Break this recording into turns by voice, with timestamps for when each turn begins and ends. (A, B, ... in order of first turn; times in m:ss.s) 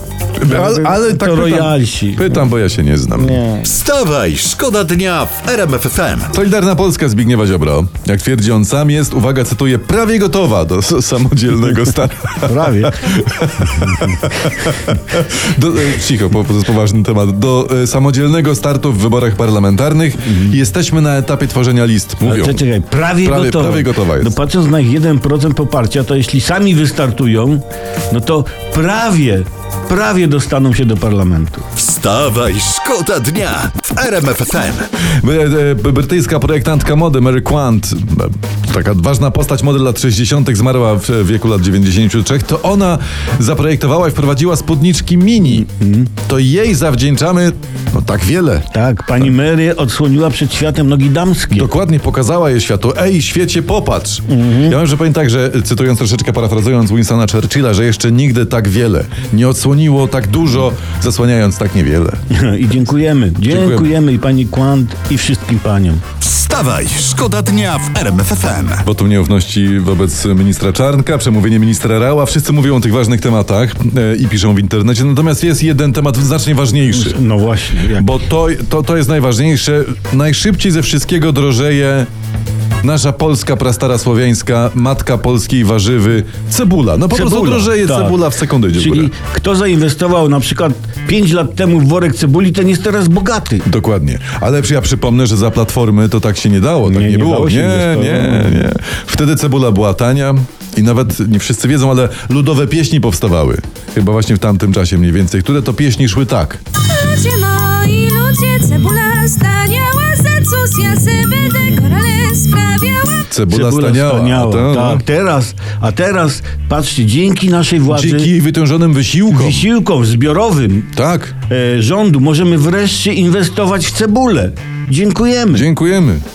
0:00.4-0:03.5 A
0:00.5-0:02.3 B
0:03.3-0:03.6 B
0:03.5-0:06.3 C
0:06.3-0:22.6 A
0:12.4-0:13.0 B
0:22.3-0:31.7 B
0:23.2-0:24.3 A
0:31.7-0:35.0 C
0:35.2-0:48.7 A
0:45.5-0:46.1 B
0:48.7-0:51.7 B
0:51.5-1:02.2 A
0:54.3-0:54.7 B
1:02.3-1:06.0 B
1:03.5-1:03.9 A
1:06.2-1:08.8 C
1:08.8-1:17.2 A
1:16.9-1:18.1 B
1:17.9-1:22.1 A
1:22.8-1:29.1 A
1:27.1-1:33.7 B
1:33.6-1:46.6 A
1:36.8-1:38.5 B
1:46.8-1:53.3 D
1:53.3-1:55.0 A
1:53.5-1:58.3 B
1:57.9-1:59.6 A
1:59.3-2:00.9 B
2:00.9-2:01.3 A
2:01.5-2:05.7 B
2:05.5-2:06.2 A